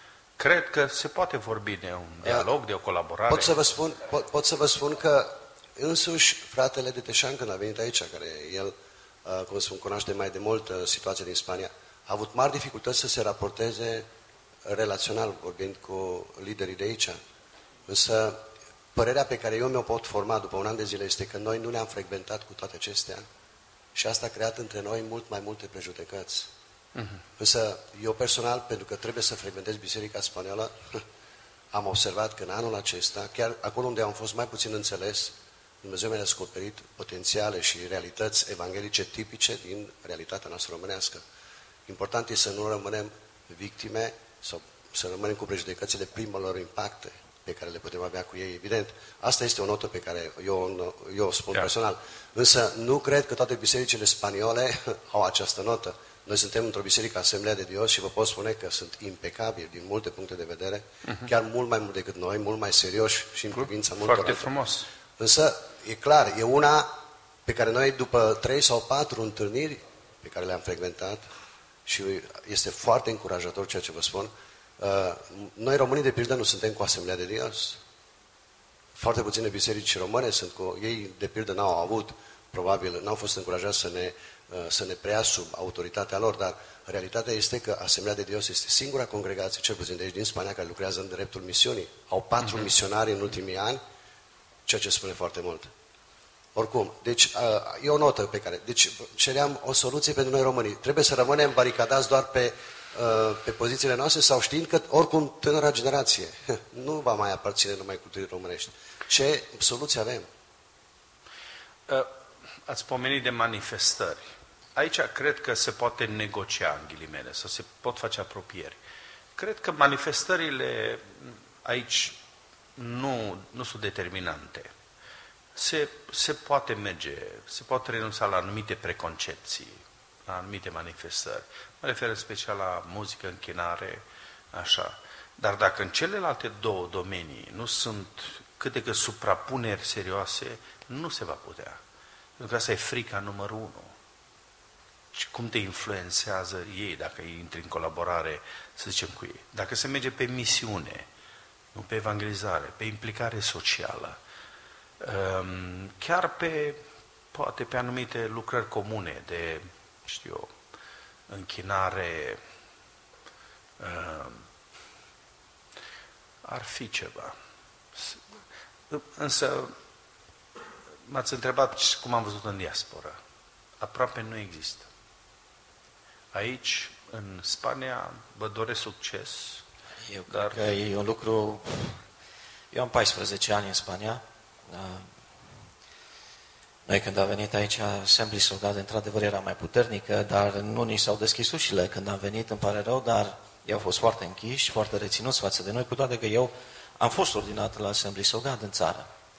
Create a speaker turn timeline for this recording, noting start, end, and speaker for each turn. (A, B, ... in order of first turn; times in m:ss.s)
0:00.4-0:03.5 A
0:03.3-0:14.1 B
0:14.6-0:17.2 B
0:17.9-0:23.2 B
0:24.0-0:26.5 B
0:26.9-0:27.2 A
0:27.4-0:31.0 B
0:31.7-0:41.2 B
0:41.9-1:04.5 B
1:01.0-1:01.3 A
1:03.5-1:04.9 A
1:05.2-1:06.9 B
1:07.4-1:11.2 B
1:11.8-1:17.8 B
1:18.9-1:33.8 B
1:34.7-1:35.7 B
1:36.5-1:50.3 B
1:52.6-1:58.8 A
1:59.4-2:02.2 A
2:02.8-2:04.7 A
2:05.5-2:21.8 A
2:22.4-2:23.9 A
2:25.1-2:31.1 A
2:31.7-2:34.2 A
2:35.0-2:36.8 A
2:37.3-2:40.5 A
2:41.3-2:42.4 A
2:43.8-2:44.4 A
2:46.4-2:47.3 A
2:48.0-2:48.2 A
2:48.9-2:49.7 A
2:51.0-2:53.2 A
2:53.8-2:54.9 A
2:56.3-2:59.6 A
3:00.1-3:02.0 C
3:00.3-3:00.6 A
3:02.7-3:05.7 C
3:06.9-3:19.1 C